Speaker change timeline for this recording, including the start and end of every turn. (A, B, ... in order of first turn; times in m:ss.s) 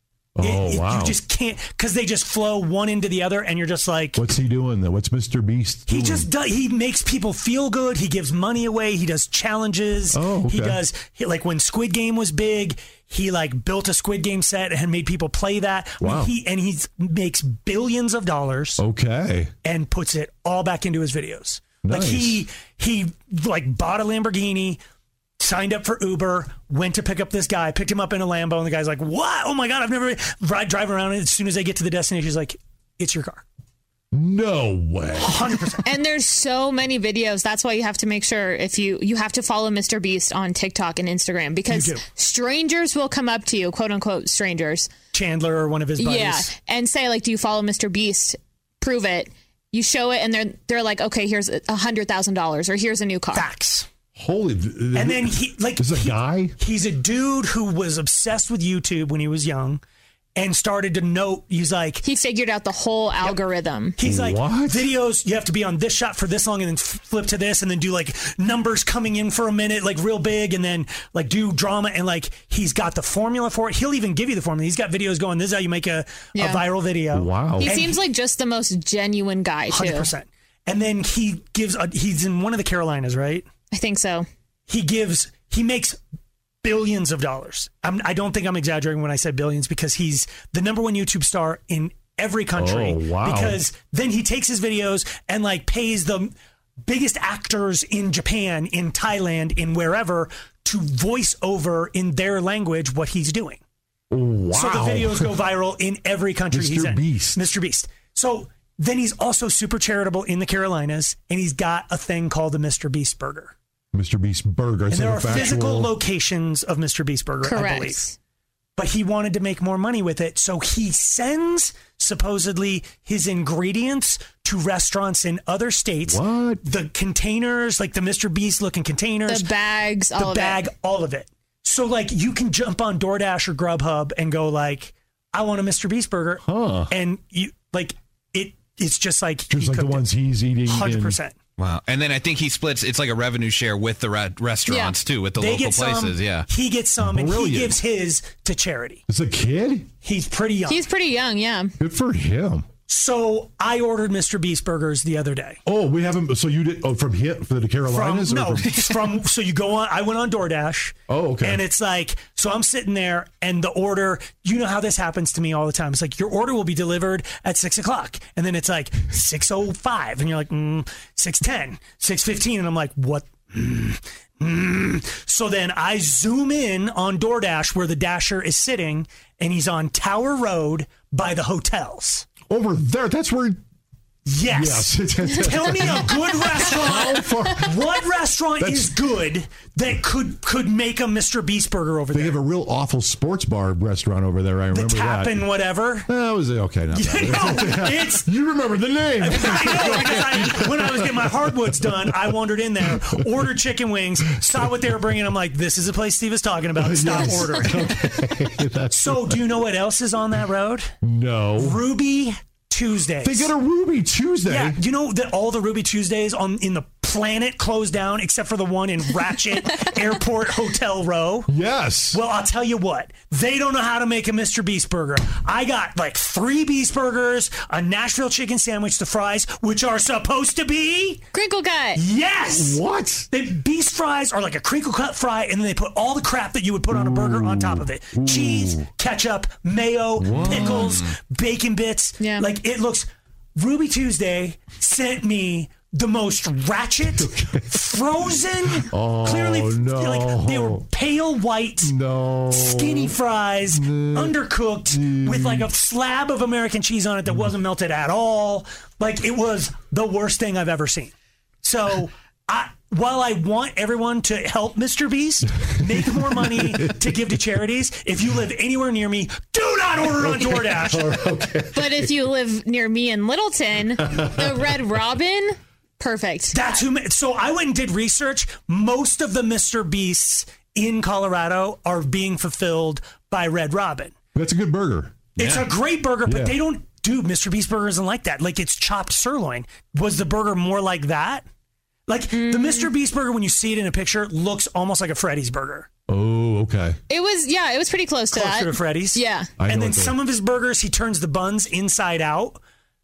0:00.4-0:01.2 A
0:00.4-0:04.2 B
0:04.1-0:06.3 A
0:05.9-0:18.8 B
0:10.1-0:10.8 A
0:16.0-0:16.3 A
0:18.8-0:19.5 A
0:19.6-0:24.8 B
0:21.8-0:22.4 A
0:25.4-0:33.4 B
0:34.1-0:35.7 A
0:35.2-0:35.8 B
0:35.8-0:44.9 C
0:41.7-0:42.0 B
0:45.1-0:46.5 B
0:46.0-0:53.5 C
0:53.3-0:53.9 B
0:54.2-0:56.6 A
0:54.9-0:59.8 B
1:00.4-1:02.0 B
1:02.0-1:04.0 C
1:04.0-1:18.0 B
1:04.0-1:04.9 A
1:16.3-1:16.6 C
1:17.1-1:17.7 A
1:17.6-1:20.1 C
1:19.7-1:23.4 B
1:23.7-1:24.2 C
1:24.7-1:26.0 B
1:26.6-1:36.3 B
1:32.6-1:33.6 A
1:36.8-1:43.6 B
1:44.1-1:45.4 A
1:44.5-1:53.5 B
1:46.5-1:47.4 A
1:53.9-1:55.9 A
1:54.9-1:58.0 B
1:57.4-1:58.2 C
1:58.8-2:09.5 B
2:06.0-2:06.6 A
2:09.2-2:10.6 C
2:10.2-2:20.1 B
2:16.4-2:16.9 A
2:19.5-2:21.2 A
2:20.6-2:21.4 B
2:21.6-2:26.4 D
2:24.7-2:25.0 C
2:25.4-2:29.0 B
2:27.0-2:27.8 A
2:29.1-2:29.9 A
2:30.0-2:30.8 B
2:30.7-2:31.7 C
2:31.8-2:32.7 A
2:32.9-2:35.6 B
2:35.6-2:39.2 A
2:37.9-3:02.3 B
2:41.1-2:41.6 A
3:02.5-3:03.6 A
3:04.2-3:12.4 B
3:04.5-3:07.8 A
3:08.6-3:09.0 A
3:12.1-3:15.5 A
3:14.7-3:16.1 B
3:16.0-3:22.1 A
3:16.9-3:18.3 B
3:19.2-3:28.2 B
3:22.9-3:23.2 A
3:24.5-3:24.8 A
3:26.8-3:29.5 A
3:28.9-3:30.9 B
3:31.0-3:31.8 A
3:31.6-3:33.5 B
3:33.2-3:34.8 A
3:34.4-3:41.5 B
3:41.5-3:42.2 A
3:42.1-3:51.2 B
3:51.3-3:52.0 C
3:51.9-4:11.9 B
3:52.4-3:53.3 A
3:56.9-3:58.9 A
4:00.2-4:01.0 A
4:00.3-4:01.1 D
4:02.2-4:02.5 C
4:07.2-4:07.8 A
4:08.7-4:10.8 A
4:11.8-4:13.2 A
4:12.5-4:31.2 B
4:13.7-4:15.7 A
4:25.8-4:26.9 A
4:30.1-4:32.1 A
4:31.7-4:36.8 C
4:34.0-4:34.5 A
4:36.5-4:44.1 B
4:44.3-4:45.6 A
4:45.4-4:51.4 B
4:46.2-4:46.6 A
4:52.1-4:55.9 B
4:52.3-4:52.9 C
4:56.1-4:57.0 A
4:57.1-4:59.5 C
4:58.3-5:02.6 B
4:59.6-5:00.2 A